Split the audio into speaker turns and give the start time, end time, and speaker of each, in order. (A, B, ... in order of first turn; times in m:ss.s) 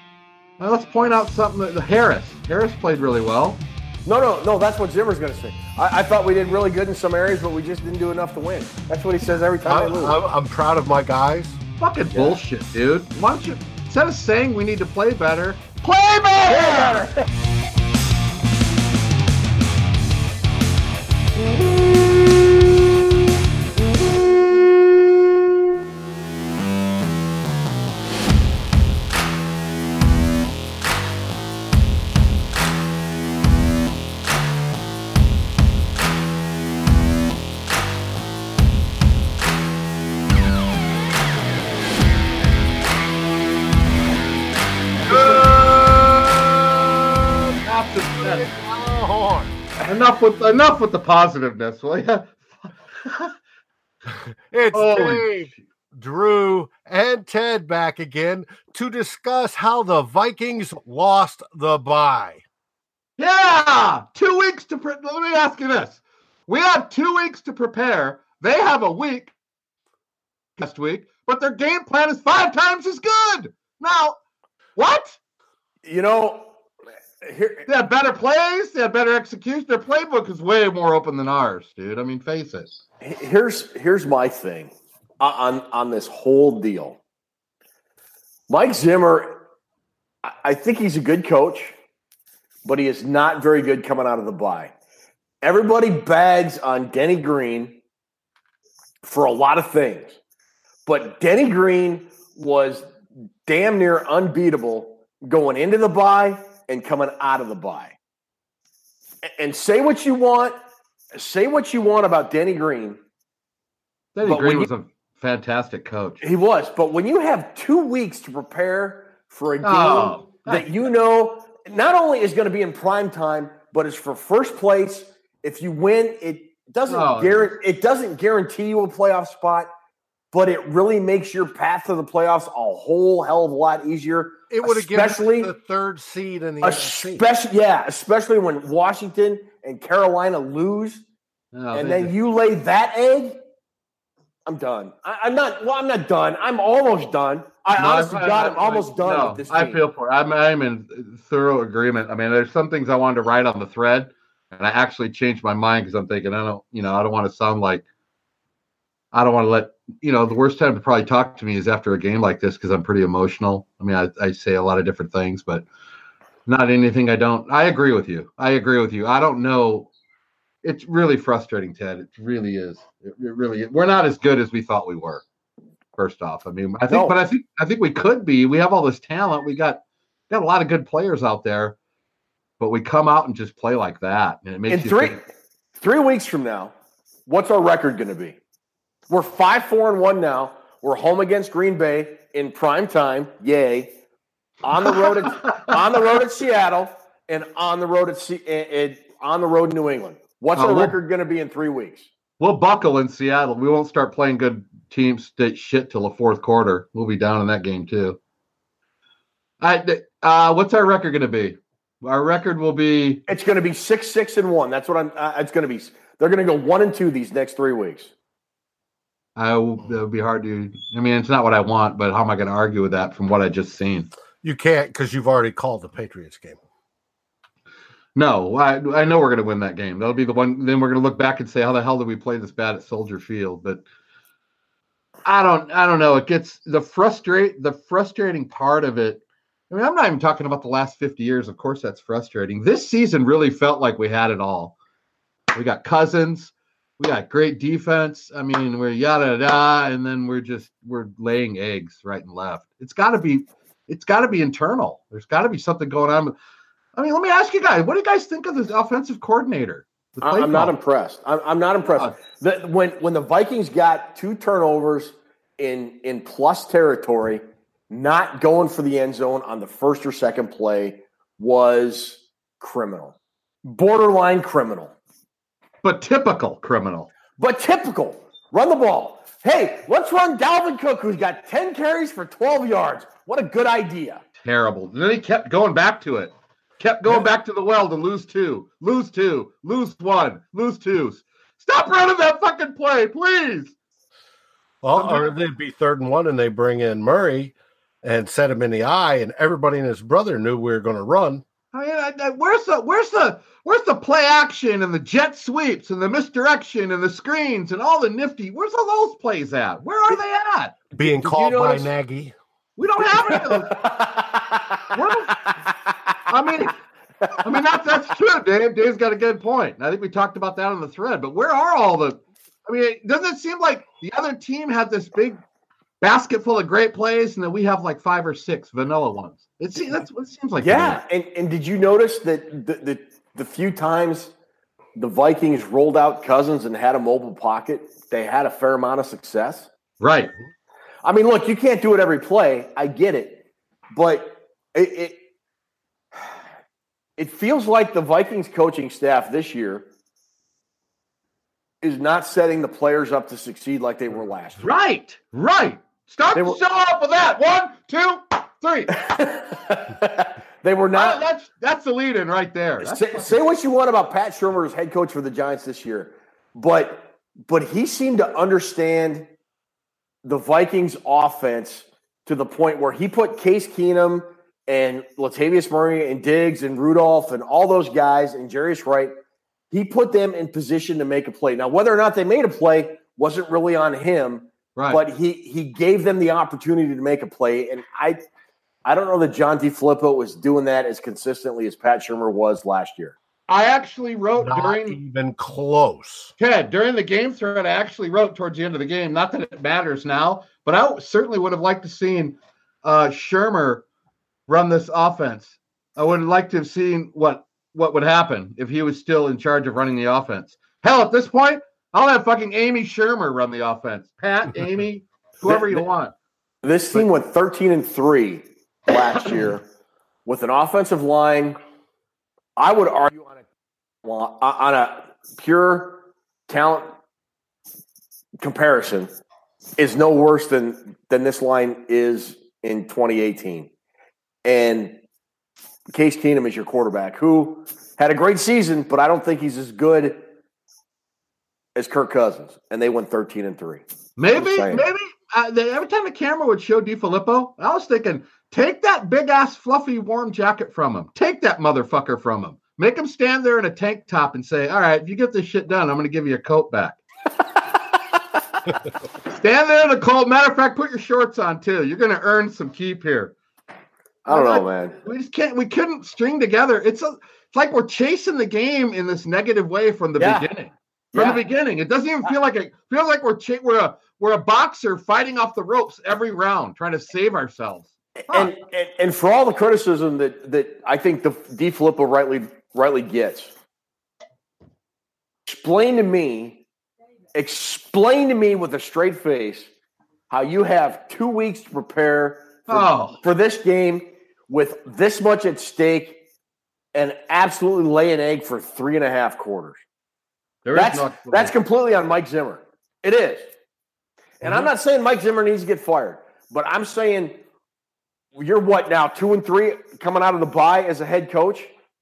0:00.6-0:03.6 A
0:04.0-0:10.2 B
0:09.7-0:11.6 C
0:11.8-0:17.1 A
0:12.1-0:12.4 B
0:16.5-0:17.2 B
0:45.1-0:47.6 C
0:45.1-0:45.5 A
0:47.6-0:48.5 A
0:48.2-0:49.6 C
0:49.8-0:53.4 A
0:54.1-1:02.4 C
0:54.7-0:55.6 A
1:03.2-1:09.3 A
1:10.6-1:14.2 A
1:14.8-1:15.2 A
1:15.8-1:16.6 B
1:17.2-1:17.7 B
1:17.7-1:22.7 A
1:23.0-1:27.0 B
1:28.5-1:29.4 B
1:30.2-1:31.8 B
1:32.6-1:34.7 B
1:35.4-1:37.8 B
1:39.0-1:40.2 B
1:40.9-1:48.0 B
1:49.2-1:50.6 B
1:51.1-1:53.0 B
1:54.2-1:56.2 A
1:54.2-1:54.7 B
1:56.2-2:09.7 B
1:59.6-2:00.7 A
2:06.9-2:07.5 A
2:10.3-2:15.5 B
2:14.5-2:17.3 C
2:16.6-2:21.0 B
2:21.5-2:22.1 A
2:21.7-2:23.4 B
2:24.5-2:29.8 B
2:27.8-2:37.8 A
2:39.1-2:45.7 A
2:46.5-2:49.9 A
2:50.6-2:55.2 A
2:56.0-3:01.8 A
2:56.9-2:57.2 B
3:02.6-3:05.2 A
3:04.7-3:05.2 B
3:05.8-3:06.7 B
3:07.3-3:08.4 B
3:09.1-3:14.0 B
3:14.6-3:22.1 B
3:15.0-3:15.7 A
3:20.6-3:21.0 A
3:22.4-3:28.2 A
3:29.6-3:33.2 A
3:33.3-3:38.1 B
3:39.4-3:44.1 A
3:44.4-3:46.6 C
3:48.2-3:53.8 A
3:55.2-4:04.8 A
4:05.5-4:16.3 A
4:17.0-4:20.8 A
4:20.2-4:35.0 B
4:21.9-4:22.1 A
4:35.8-4:37.1 A
4:37.4-4:44.2 B
4:44.4-4:53.7 A
4:54.8-5:01.4 C
4:55.0-4:55.3 A
5:01.7-5:10.8 A
5:10.9-5:12.3 C
5:11.0-5:11.9 B
5:12.8-5:13.8 A
5:13.0-5:16.2 B
5:14.9-5:15.4 A
5:16.3-5:16.8 A
5:17.4-5:25.4 A
5:26.0-5:31.0 A
5:30.6-5:34.3 B
5:35.0-5:39.7 B
5:40.0-5:40.3 A
5:41.0-5:43.4 B
5:43.9-5:45.2 B
5:47.2-5:49.9 B
5:51.8-5:54.6 B
5:54.6-5:59.0 A
5:58.9-6:01.2 B
6:00.9-6:03.4 A
6:02.8-6:09.3 B
6:10.2-6:19.1 B
6:19.7-6:28.2 B
6:24.8-6:25.0 A
6:28.8-6:33.2 B
6:33.5-6:35.0 A
6:34.4-6:36.3 C
6:36.4-6:43.8 A
6:44.5-6:56.1 A
6:55.4-6:55.8 B
6:56.6-6:59.6 B
7:00.2-7:01.6 B
7:02.6-7:03.5 B
7:04.0-7:06.9 B
7:08.4-7:09.1 B
7:09.8-7:13.7 B
7:14.4-7:15.0 B
7:15.9-7:20.2 B
7:21.8-7:24.8 B
7:24.2-7:37.0 A
7:39.3-7:43.4 A
7:44.3-7:58.5 A
7:44.3-7:45.0 B
7:50.2-7:50.5 B
7:51.1-7:51.4 B
7:58.3-8:03.5 B
8:05.5-8:06.6 B
8:07.3-8:09.7 B
8:10.3-8:16.2 B
8:12.7-8:13.2 A
8:16.9-8:19.8 B
8:20.6-8:21.6 A
8:20.7-8:23.5 B
8:24.4-8:27.4 B
8:24.4-8:24.7 C
8:28.3-8:31.7 B